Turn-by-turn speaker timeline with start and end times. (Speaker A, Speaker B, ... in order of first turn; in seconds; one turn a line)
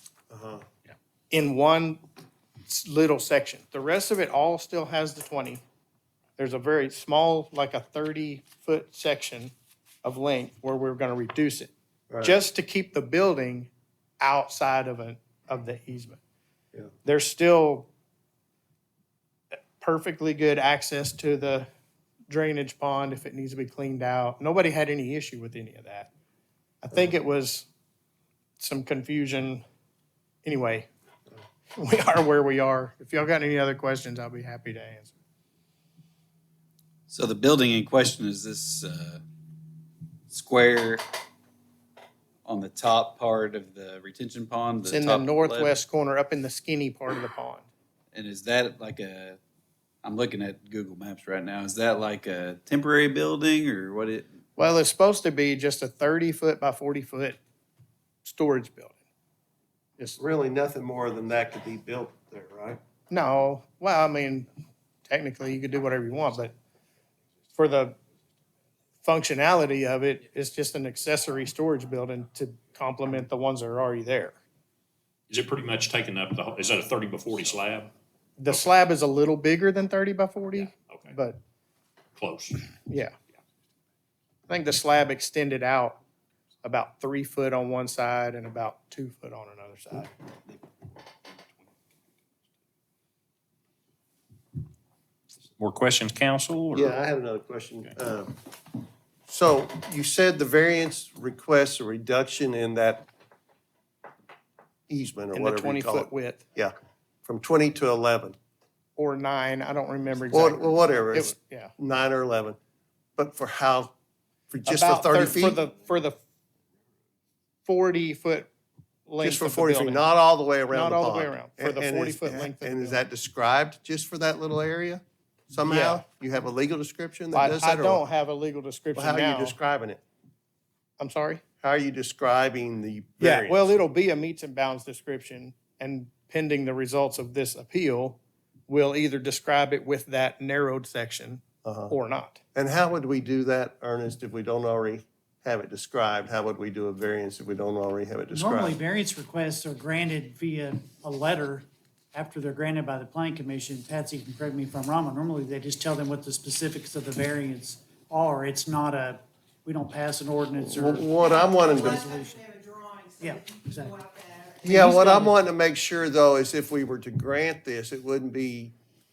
Speaker A: 0.3-0.7
Speaker B: 1.3-2.0
Speaker B: 2.7-5.6
Speaker B: 6.4-11.7
Speaker A: 12.1-12.4
Speaker B: 12.2-16.2
Speaker B: 17.0-17.9
Speaker B: 19.5-21.7
Speaker B: 22.3-26.1
Speaker B: 26.8-27.7
Speaker B: 28.6-29.6
Speaker B: 30.4-30.9
Speaker B: 31.8-35.1
Speaker C: 37.1-39.2
Speaker C: 40.3-41.0
Speaker C: 42.5-45.7
Speaker B: 44.9-47.7
Speaker C: 48.1-49.4
Speaker C: 50.0-54.4
Speaker B: 54.6-57.4
Speaker B: 58.2-59.0
Speaker A: 60.2-62.8
Speaker B: 63.1-64.5
Speaker B: 65.1-66.5
Speaker B: 67.5-68.0
Speaker B: 69.0-74.4
Speaker D: 75.3-77.9
Speaker B: 78.4-81.4
Speaker D: 80.8-81.1
Speaker D: 82.2-82.7
Speaker B: 82.9-83.2
Speaker B: 84.5-86.0
Speaker B: 86.6-90.1
Speaker D: 95.6-97.0
Speaker A: 96.7-98.4
Speaker A: 99.3-103.1
Speaker A: 104.9-108.4
Speaker B: 105.3-106.4
Speaker B: 109.0-111.7
Speaker A: 110.3-112.6
Speaker A: 113.2-113.9
Speaker A: 114.5-115.6
Speaker B: 114.7-116.2
Speaker B: 117.7-118.5
Speaker B: 119.1-120.0
Speaker A: 119.2-128.0
Speaker B: 120.7-123.0
Speaker B: 125.6-126.0
Speaker B: 127.3-129.6
Speaker A: 128.9-130.0
Speaker B: 131.0-131.4
Speaker A: 131.6-133.8
Speaker B: 133.2-142.4
Speaker A: 141.6-141.9
Speaker A: 142.6-148.8
Speaker E: 148.3-161.1
Speaker A: 160.6-162.1
Speaker F: 161.2-164.9
Speaker E: 161.9-162.4
Speaker E: 163.2-163.9
Speaker A: 164.6-168.8
Speaker E: 164.7-165.3